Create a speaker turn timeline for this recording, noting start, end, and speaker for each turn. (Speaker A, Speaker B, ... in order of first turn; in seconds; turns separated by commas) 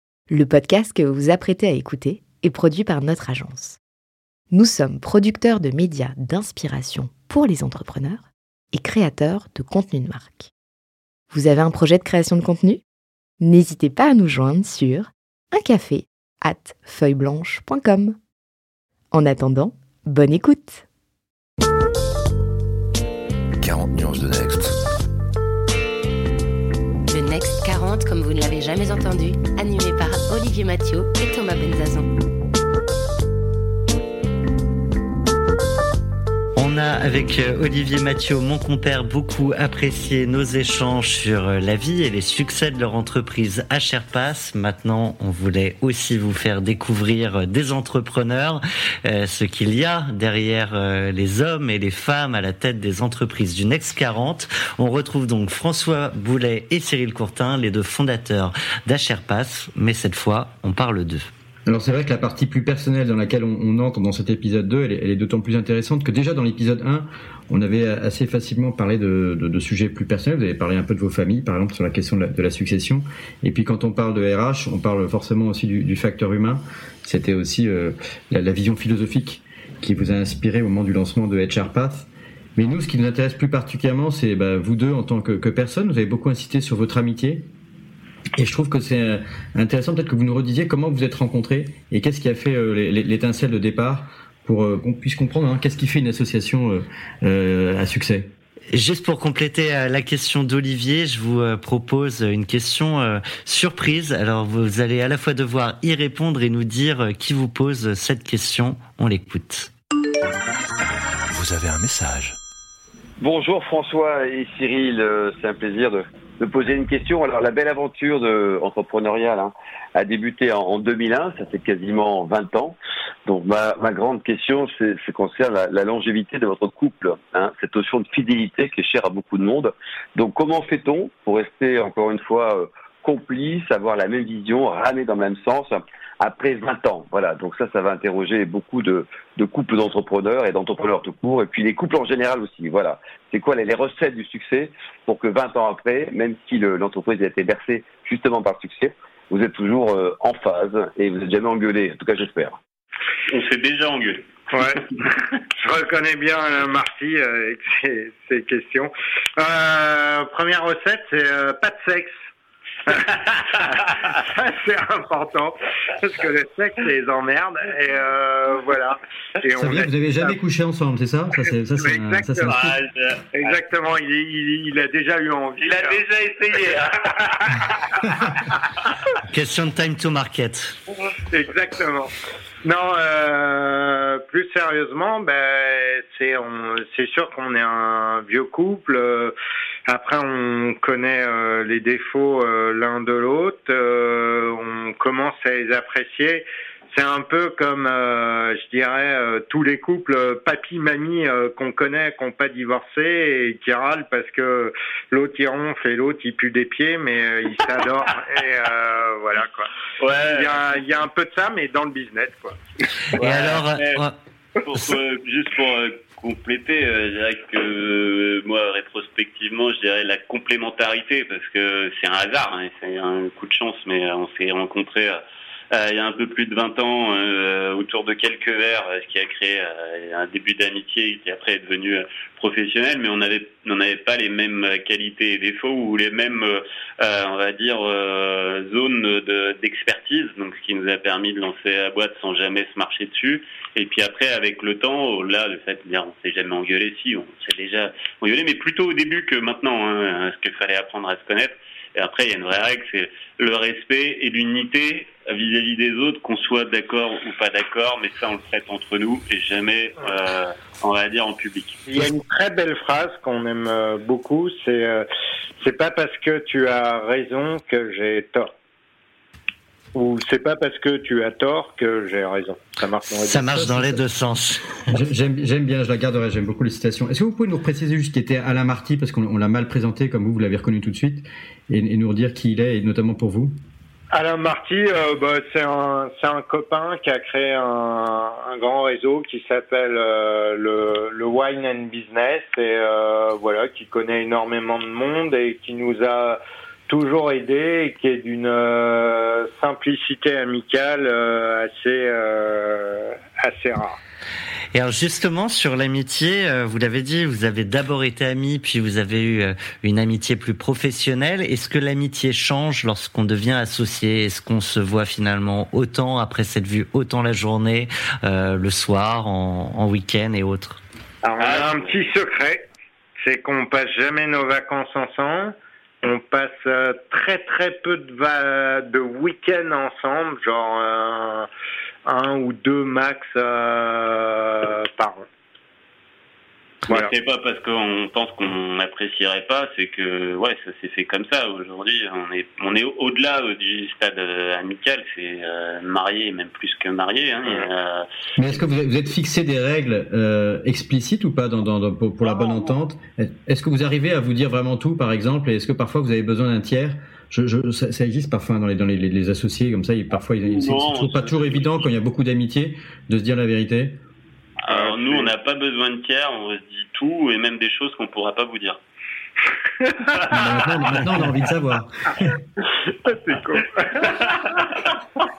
Speaker A: 0.3-3.8, Speaker A: 4.5-10.5, Speaker A: 11.3-12.8, Speaker A: 13.4-18.2, Speaker A: 19.1-20.9, Speaker B: 23.6-24.8, Speaker C: 27.1-32.1, Speaker D: 36.5-61.3, Speaker E: 61.7-87.5, Speaker E: 88.4-98.3, Speaker D: 98.7-109.7, Speaker B: 111.3-112.4, Speaker F: 113.2-152.6, Speaker G: 153.3-154.2, Speaker H: 154.5-162.1, Speaker H: 162.9-170.3, Speaker E: 169.6-172.8, Speaker H: 171.8-172.5, Speaker G: 172.5-173.5, Speaker H: 173.3-176.0, Speaker G: 175.6-177.6, Speaker H: 177.4-177.6, Speaker D: 179.3-180.8, Speaker H: 181.3-189.3, Speaker H: 189.9-209.7, Speaker G: 210.0-210.6, Speaker H: 210.2-212.6, Speaker D: 213.1-214.1, Speaker G: 213.2-214.0, Speaker G: 214.6-225.2, Speaker G: 225.7-261.8, Speaker H: 261.9-265.1, Speaker H: 265.6-268.5, Speaker H: 269.9-273.9, Speaker D: 273.2-274.9, Speaker E: 274.9-283.6, Speaker H: 284.1-304.0, Speaker D: 304.7-320.8, Speaker H: 321.2-322.6, Speaker G: 321.4-322.0, Speaker H: 323.2-331.5, Speaker H: 332.1-335.2, Speaker G: 336.9-348.6, Speaker E: 348.4-364.0, Speaker G: 352.2-352.7, Speaker G: 360.4-361.9, Speaker G: 364.6-368.8, Speaker H: 364.7-365.3, Speaker G: 370.1-371.0, Speaker E: 370.3-372.4, Speaker H: 372.9-374.4, Speaker G: 374.0-374.9